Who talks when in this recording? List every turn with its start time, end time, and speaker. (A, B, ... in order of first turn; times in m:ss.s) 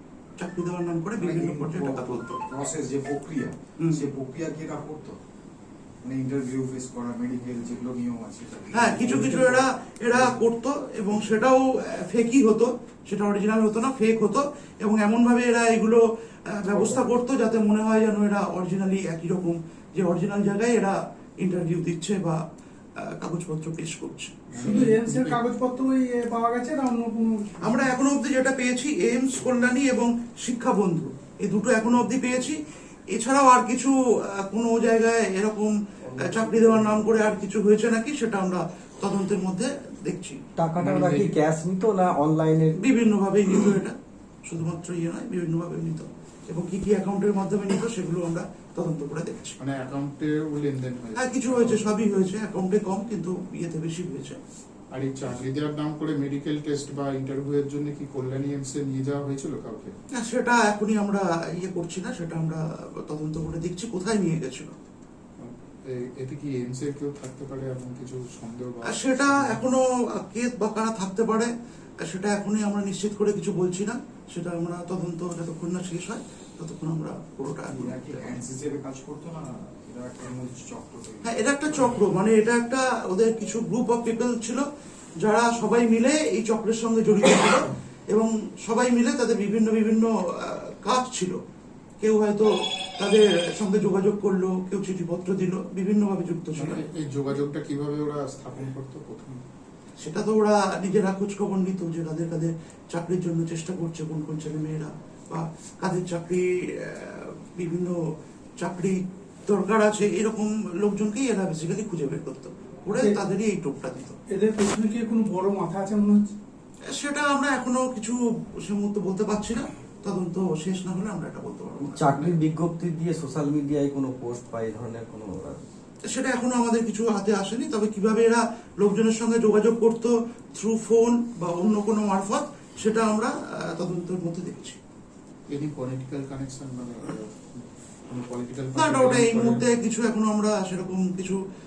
0:00.4-0:02.4 A
0:01.2-0:05.2 B
0:03.8-0:04.1 A
0:06.0-0:09.6 B
0:08.7-0:22.4 A
0:09.1-0:09.6 C
0:10.1-0:10.4 B
0:23.0-0:24.5 A
0:24.5-0:25.4 D
0:24.6-0:27.5 E
0:27.6-0:32.6 A
0:33.1-0:40.4 A
0:36.1-0:37.3 C
0:40.6-0:42.8 C
0:40.8-0:41.3 D
0:42.8-0:43.9 A
0:44.4-0:49.6 A
0:49.6-0:52.3 D
0:51.2-0:54.4 A
0:54.9-0:59.9 D
1:00.1-1:04.7 A
1:05.4-1:09.6 D
1:08.8-1:18.2 A
1:17.7-1:21.4 B
1:21.2-1:24.6 A
1:25.2-1:31.4 A
1:32.0-1:36.8 A
1:36.5-1:39.4 D
1:40.0-1:47.9 A
1:48.6-1:54.2 A
1:54.3-1:56.3 E
1:56.9-2:02.2 A
2:01.8-2:05.6 C
2:06.1-2:14.8 A
2:15.5-2:19.7 D
2:18.7-2:21.4 A